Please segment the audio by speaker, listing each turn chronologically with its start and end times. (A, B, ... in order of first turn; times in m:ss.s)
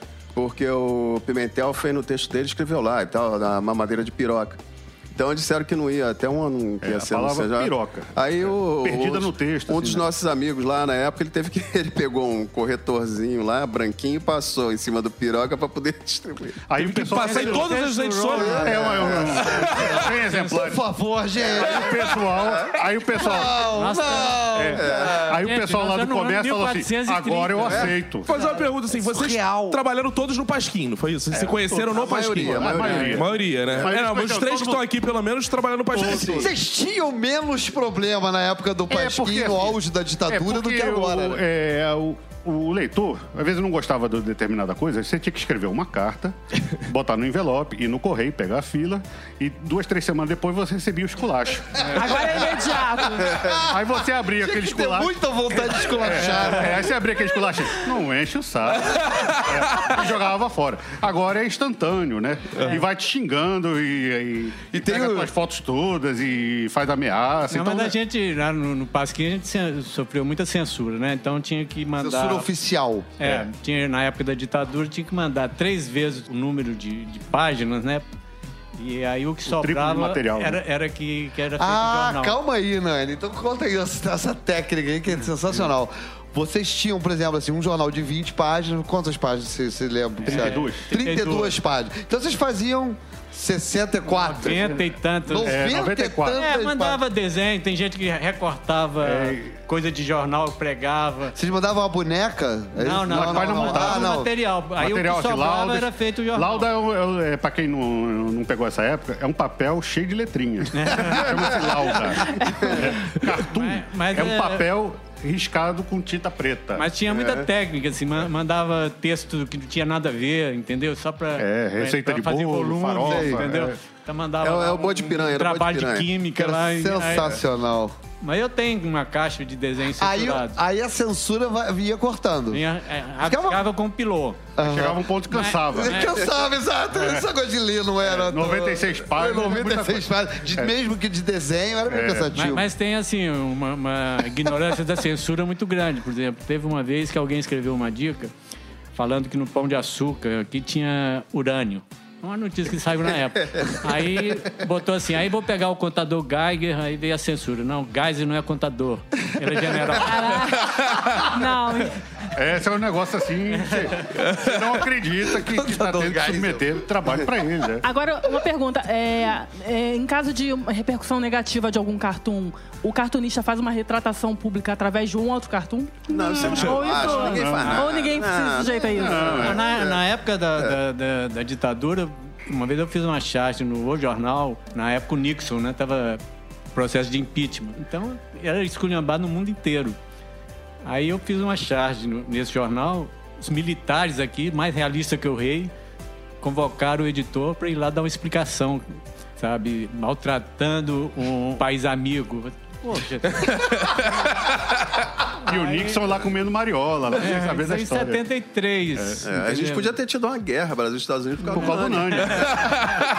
0:00.3-0:04.6 A
0:05.1-0:16.6 A
0:06.8-0:10.1 B
0:16.7-0:17.7 B
0:16.8-0:18.9 C
0:17.2-0:19.2 D
0:18.3-0:19.9 E
0:18.5-0:20.8 B
0:18.6-0:19.9 A
0:19.4-0:19.9 C
0:20.2-0:20.6 D
0:20.4-0:22.0 E
0:21.4-0:22.8 A
0:21.5-0:23.6 B
0:23.2-0:25.3 E
0:23.7-0:24.5 D
0:24.5-0:28.3 B
0:24.7-0:25.3 A
0:25.3-0:27.9 D
0:27.7-0:27.9 A
0:28.3-0:29.8 E
0:28.3-0:36.5 C
0:31.3-0:31.8 B
0:31.9-0:33.1 E
0:31.9-0:33.9 A
0:32.4-0:33.3 B
0:33.8-0:34.8 B
0:36.0-0:36.4 B
0:36.0-0:36.5 A
0:36.0-0:41.4 E
0:38.9-0:52.2 B
0:51.8-0:52.2 D
0:51.8-0:53.4 F
0:53.2-0:57.0 E
0:53.2-0:53.6 A
0:53.5-1:07.9 B
0:59.2-0:59.9 C
1:04.7-1:05.3 E
1:07.5-1:12.5 D
1:12.0-1:13.1 E
1:13.2-1:18.0 D
1:13.2-1:13.5 B
1:18.8-1:22.4 D
1:19.4-1:20.6 B
1:21.6-1:34.7 E
1:30.2-1:30.9 B
1:30.2-1:31.6 D
1:34.1-1:35.8 D
1:35.3-1:37.0 E
1:35.4-1:36.4 B
1:36.3-1:41.4 D
1:39.0-1:39.5 B
1:41.3-1:44.3 E
1:42.8-1:46.7 D
1:43.1-1:56.9 B
1:50.7-1:51.2 D
1:52.4-1:52.7 A
1:53.4-1:54.7 D
1:56.7-2:07.4 D
1:57.1-1:57.5 A
2:01.4-2:03.8 B
2:03.0-2:03.4 E
2:04.4-2:06.1 A
2:06.3-2:07.9 E
2:08.2-2:10.6 D
2:10.0-2:12.6 E
2:12.5-2:14.5 D
2:13.2-2:13.6 E
2:14.6-2:15.1 E
2:14.6-2:16.1 B
2:15.3-2:16.2 D
2:15.7-2:22.7 E
2:16.9-2:17.3 B
2:18.0-2:20.7 B
2:21.9-2:22.3 B
2:22.3-2:28.3 D
2:28.9-2:40.5 D
2:40.0-2:42.2 F
2:42.3-2:47.9 B
2:45.4-2:46.6 E
2:47.8-2:59.4 F
2:56.1-3:00.0 A
2:56.6-2:57.8 D
2:57.2-2:57.8 B
2:59.0-2:59.8 B
2:59.3-3:06.2 D
3:06.7-3:10.0 D
3:10.8-3:15.7 D
3:16.4-3:24.3 D
3:23.6-3:24.0 C
3:25.4-3:26.1 D
3:25.4-3:28.2 B
3:27.1-3:29.9 D
3:29.0-3:29.2 B
3:29.2-3:32.7 A
3:31.4-3:32.7 D
3:31.5-3:32.9 B